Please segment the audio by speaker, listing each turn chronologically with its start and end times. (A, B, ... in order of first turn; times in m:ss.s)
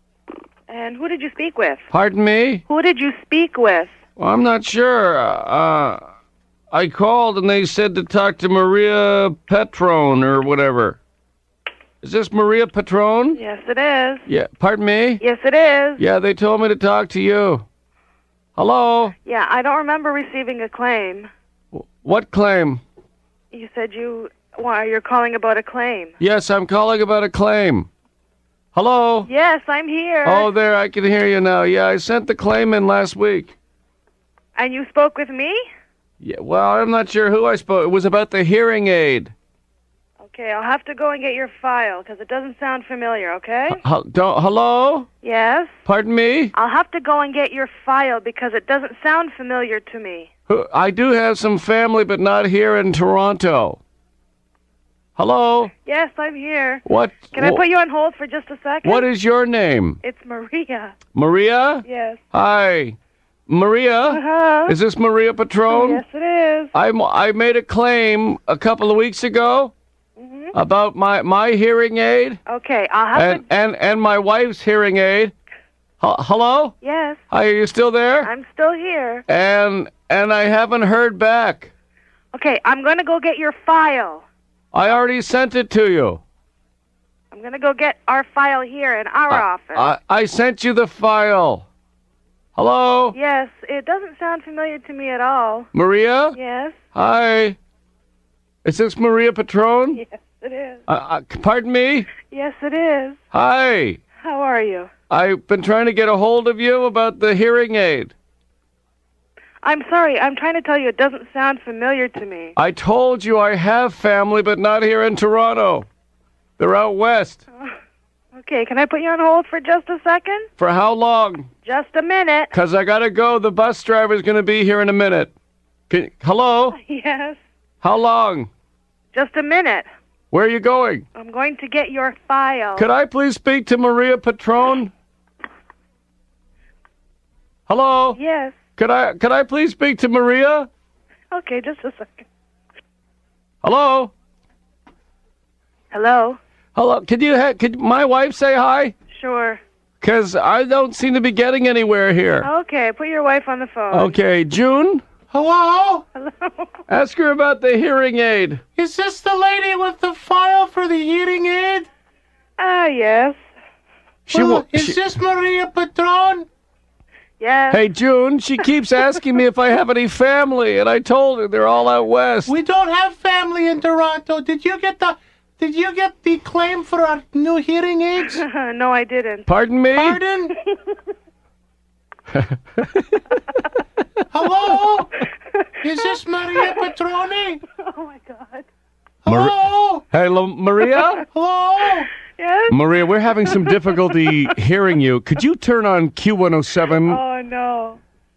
0:00.7-0:01.8 A
0:01.9-0:02.6 B
0:02.7-0:03.9 A
0:04.2-0:06.0 B
0:06.7-0:11.0 B
0:12.0-0:13.4 B
0:13.3-0:14.2 A
0:14.2-0:15.2 B
0:15.2-0:16.0 A
0:16.0-0:17.6 B
0:18.5-0:19.1 B
0:19.2-0:21.3 A
0:21.7-0:22.8 B
0:23.5-0:26.1 A
0:26.2-0:27.9 B
0:28.7-0:29.3 B
0:29.2-0:30.5 A
0:30.2-0:33.5 B
0:34.5-0:35.6 A
0:36.2-0:39.3 B
0:40.2-0:43.8 A
0:43.7-0:45.1 B
0:45.2-0:45.8 A
0:45.8-0:46.5 B
0:46.5-0:50.3 A
0:50.5-0:53.8 B
0:55.2-0:55.7 B
0:55.8-0:56.8 A
0:56.8-0:57.6 B
0:57.3-0:59.0 A
0:58.8-1:00.0 B
1:00.0-1:00.9 A
1:01.1-1:03.0 B
1:01.8-1:02.2 A
1:03.5-1:06.0 B
1:04.1-1:04.7 A
1:05.7-1:06.7 A
1:06.7-1:09.7 B
1:10.2-1:10.5 A
1:10.5-1:12.4 B
1:12.4-1:13.4 A
1:13.1-1:15.3 B
1:16.0-1:16.7 B
1:16.8-1:17.2 A
1:17.3-1:18.3 B
1:18.2-1:19.2 A
1:19.3-1:21.7 B
1:22.3-1:24.2 A
1:24.7-1:26.2 B
1:27.3-1:29.9 A
1:29.3-1:31.6 B
1:32.6-1:33.2 B
1:33.1-1:35.7 A
1:35.7-1:36.4 B
1:36.3-1:36.8 A
1:36.9-1:37.6 B
1:38.6-1:40.0 B
1:40.0-1:40.8 A
1:40.9-1:42.1 B
1:42.2-1:43.2 A
1:43.3-1:44.0 B
1:44.2-1:44.9 A
1:45.1-1:48.1 B
1:49.6-1:52.5 A
1:52.6-1:55.8 B
1:56.6-1:57.4 B
1:58.3-2:00.5 A
2:00.6-2:01.5 B
2:01.6-2:02.5 A
2:02.5-2:05.3 B
2:05.9-2:06.8 B
2:06.7-2:07.4 A
2:07.8-2:08.5 B
2:09.1-2:09.9 A
2:10.3-2:11.0 B
2:11.1-2:12.8 A
2:12.8-2:14.9 B
2:17.7-2:18.2 B
2:18.1-2:18.6 A
2:18.8-2:20.7 B
2:21.3-2:22.2 A
2:23.6-2:24.1 B
2:25.9-2:26.4 A
2:26.7-2:28.9 B
2:29.1-2:29.6 A
2:30.0-2:32.5 B
2:32.4-2:34.2 A
2:33.9-2:35.0 B
2:35.3-2:36.0 C
2:36.2-2:36.7 A
2:36.9-2:38.6 B
2:38.8-2:41.9 C
2:42.6-2:43.4 A
2:44.3-2:45.0 B
2:44.3-2:46.5 C
2:47.4-2:47.8 A
2:47.7-2:52.5 B
2:52.4-2:58.4 C
2:58.3-2:59.5 A
2:59.5-3:00.2 B
3:00.0-3:00.6 C
3:00.6-3:00.9 A
3:02.3-3:03.2 B
3:04.3-3:05.2 C
3:05.8-3:07.6 C
3:06.6-3:06.9 A
3:07.7-3:08.6 A
3:09.2-3:10.0 C
3:09.3-3:09.6 B
3:10.1-3:11.2 B
3:10.9-3:11.2 A
3:11.3-3:12.1 C
3:12.2-3:12.9 A
3:12.7-3:17.2 B
3:13.4-3:14.5 A
3:16.9-3:18.0 A